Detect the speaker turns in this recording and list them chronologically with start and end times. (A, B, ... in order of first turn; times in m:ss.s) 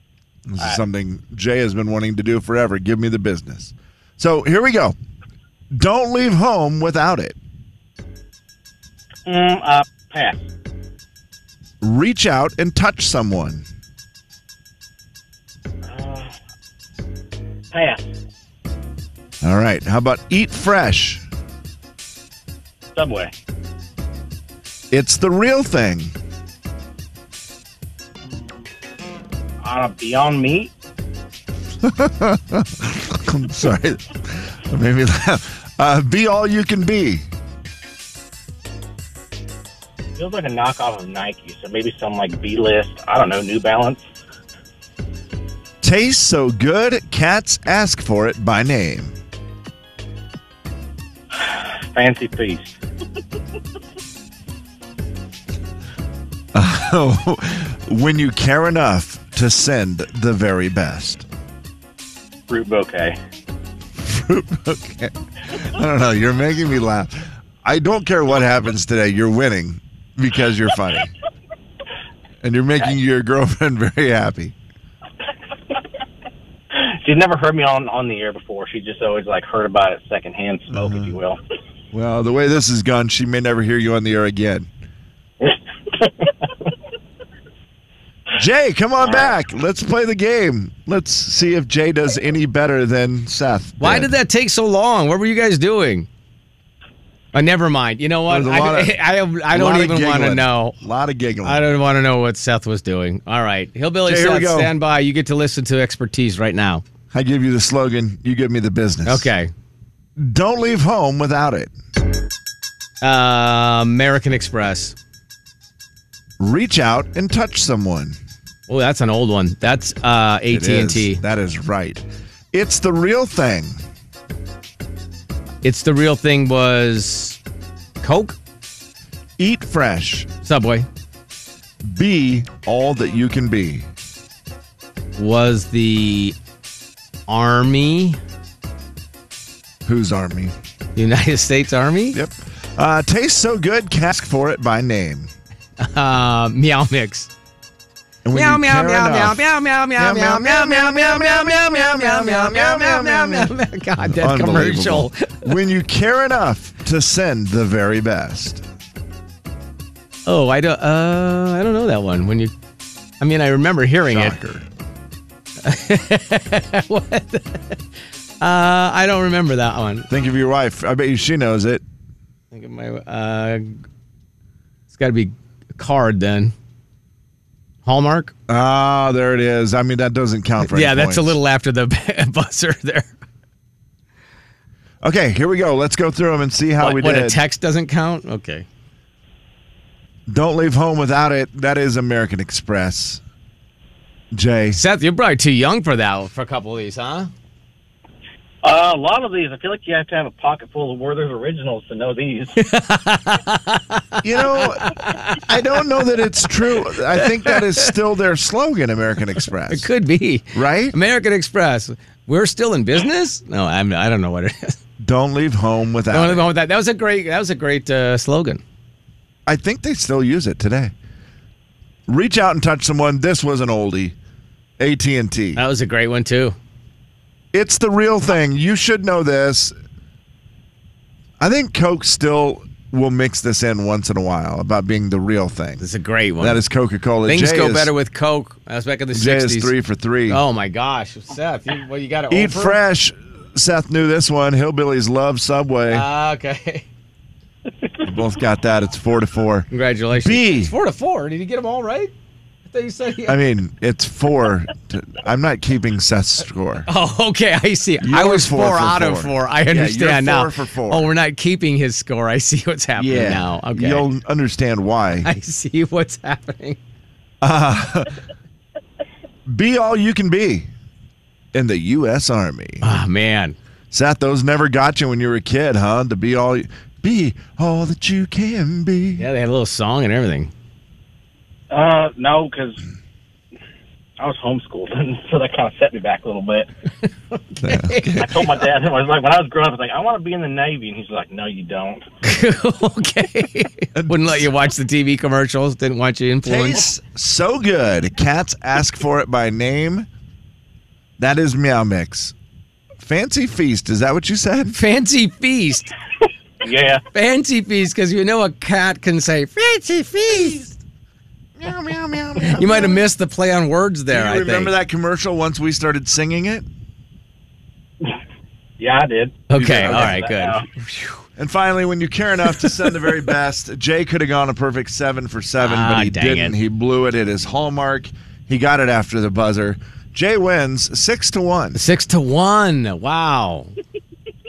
0:00.5-0:05.0 A
0:05.7-0:07.4 A
0:09.3-0:10.4 B
0:11.8-0:13.7 A
0:15.8-0:16.3 B
0:17.7-0:18.1 B
0:19.4-0:21.2 A
0:23.0-0:23.3 B
0:24.9-0:26.2 A
0:28.3-0:28.5 B
0:29.6-0:30.7 B
0:31.8-0:37.3 A
0:40.2-0:44.1 B
0:45.8-0:49.1 A
0:51.4-0:52.8 B
0:56.5-1:01.3 A
1:02.5-1:03.2 B
1:04.0-1:11.1 A
1:12.4-1:14.6 A
1:16.7-1:21.4 B
1:20.7-1:21.2 A
1:21.9-1:24.7 A
1:25.4-1:26.5 B
1:28.4-1:34.1 A
1:33.8-1:36.1 C
1:37.3-1:40.8 C
1:38.3-1:41.7 A
1:41.4-1:46.8 C
1:44.0-1:44.7 A
1:47.1-1:49.3 A
1:49.1-1:49.5 C
1:50.2-1:51.7 A
1:53.0-1:55.0 C
1:56.4-1:58.2 A
1:58.7-2:01.2 C
2:00.5-2:03.8 A
2:05.6-2:07.4 C
2:08.0-2:08.4 C
2:09.4-2:10.3 A
2:10.4-2:10.9 C
2:11.8-2:13.9 A
2:15.2-2:16.4 C
2:17.3-2:18.2 C
2:19.8-2:20.6 A
2:21.0-2:22.2 C
2:22.1-2:25.3 A
2:25.8-2:27.3 C
2:28.2-2:38.6 A
2:28.3-2:35.5 C
2:40.3-2:42.5 C
2:43.2-2:44.4 C
2:44.1-2:44.7 A
2:45.6-2:47.8 C
2:48.4-2:50.1 C
2:50.1-2:51.8 A
2:52.5-2:53.8 C
2:54.9-2:56.5 C
2:57.8-2:58.3 C
2:58.5-3:01.4 A
3:00.6-3:03.1 C
3:05.0-3:07.4 A
3:06.8-3:08.7 C
3:10.3-3:13.2 A
3:14.3-3:14.8 A
3:14.7-3:17.3 C
3:18.6-3:22.6 B
3:22.6-3:25.5 C
3:24.2-3:29.9 A
3:26.7-3:27.9 C
3:29.7-3:34.8 C
3:30.5-3:31.0 A
3:35.0-3:36.5 A
3:36.1-3:38.6 C
3:39.5-3:40.9 A
3:42.1-3:44.2 A
3:44.8-3:45.6 A
3:45.6-3:46.6 C
3:47.5-3:49.8 A
3:51.4-3:55.8 A
3:55.8-3:56.6 C
3:56.4-3:57.9 A
3:57.3-3:59.7 C
3:59.1-4:00.4 A
4:00.3-4:02.8 C
4:02.3-4:06.1 A
4:05.9-4:06.9 C
4:08.0-4:10.7 A
4:09.7-4:12.1 C
4:12.7-4:13.4 C
4:13.3-4:16.9 A
4:16.9-4:24.1 C
4:18.0-4:21.1 A
4:23.0-4:25.3 A
4:25.2-4:26.8 C
4:27.4-4:28.1 A
4:29.5-4:30.7 A
4:31.5-4:32.9 A
4:32.8-4:33.6 C
4:33.9-4:39.3 A
4:39.2-4:40.5 C
4:41.7-4:42.8 B
4:44.2-4:46.7 B
4:47.3-4:48.2 C
4:47.6-4:48.5 A
4:48.2-4:52.0 B
4:52.2-4:56.9 C
4:54.0-4:54.5 A
4:56.4-5:00.1 A
5:01.2-5:02.4 A
5:03.0-5:04.8 A
5:04.7-5:05.9 C
5:06.6-5:07.0 B
5:07.1-5:10.7 C
5:11.6-5:13.0 A
5:12.4-5:14.7 C
5:14.1-5:16.6 A
5:18.8-5:20.6 B
5:19.5-5:21.2 C
5:19.6-5:20.3 A
5:21.4-5:31.8 A
5:25.6-5:26.6 C
5:31.8-5:33.7 C